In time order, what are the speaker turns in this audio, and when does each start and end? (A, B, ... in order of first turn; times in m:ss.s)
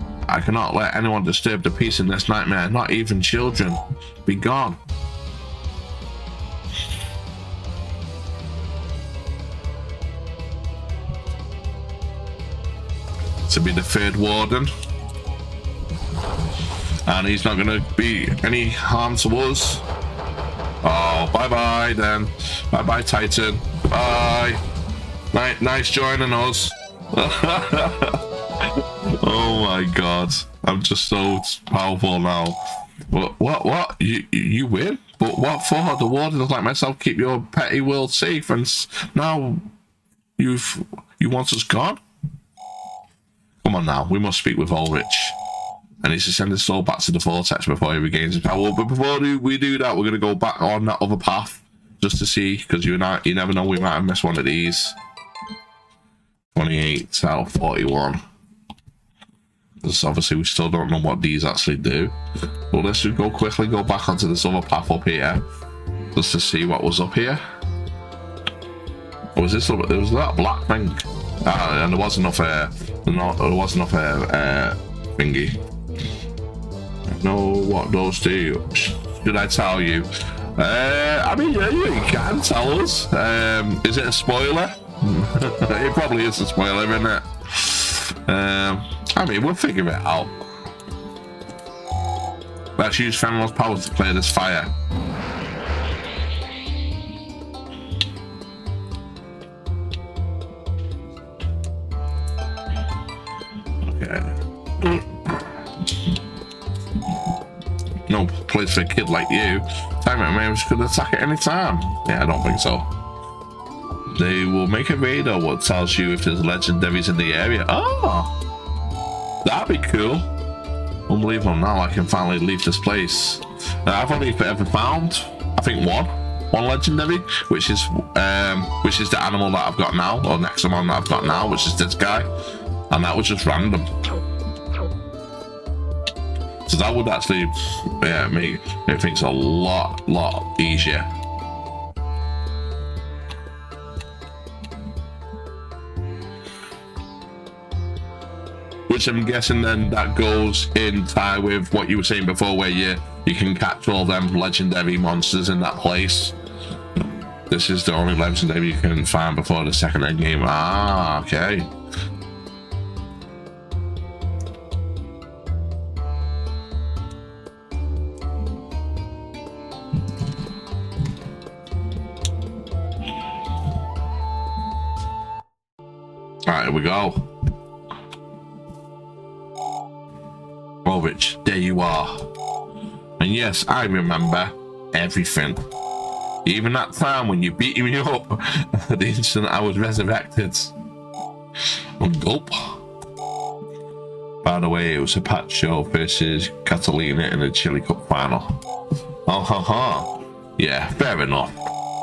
0:00.3-0:04.8 A
0:13.4-0:14.7 A
0:17.0-0:19.8 A
0:20.8-0:24.6 A
0:25.3-0:39.6 A
0:40.4-0:42.0 A
0:43.6-0:45.4 A
0:46.0-0:55.0 A
0:56.5-0:58.2 A
0:59.8-1:02.1 A
1:02.7-1:05.4 A
1:06.1-1:07.4 A
1:09.3-1:15.6 A
1:17.1-1:30.3 A
1:32.8-1:34.7 A
1:43.8-1:45.4 A
1:48.1-1:52.9 A
1:54.1-1:58.3 A
1:59.4-2:00.3 A
2:01.1-2:12.3 A
2:12.9-2:13.9 A
2:16.7-2:21.1 A
2:28.9-2:36.3 A
2:37.5-2:41.7 A
2:56.4-2:57.3 A
3:00.8-3:02.3 A
3:03.2-3:05.6 A
3:06.4-3:10.7 A
3:12.0-3:12.8 A
3:14.4-3:18.6 A
3:19.2-3:21.6 A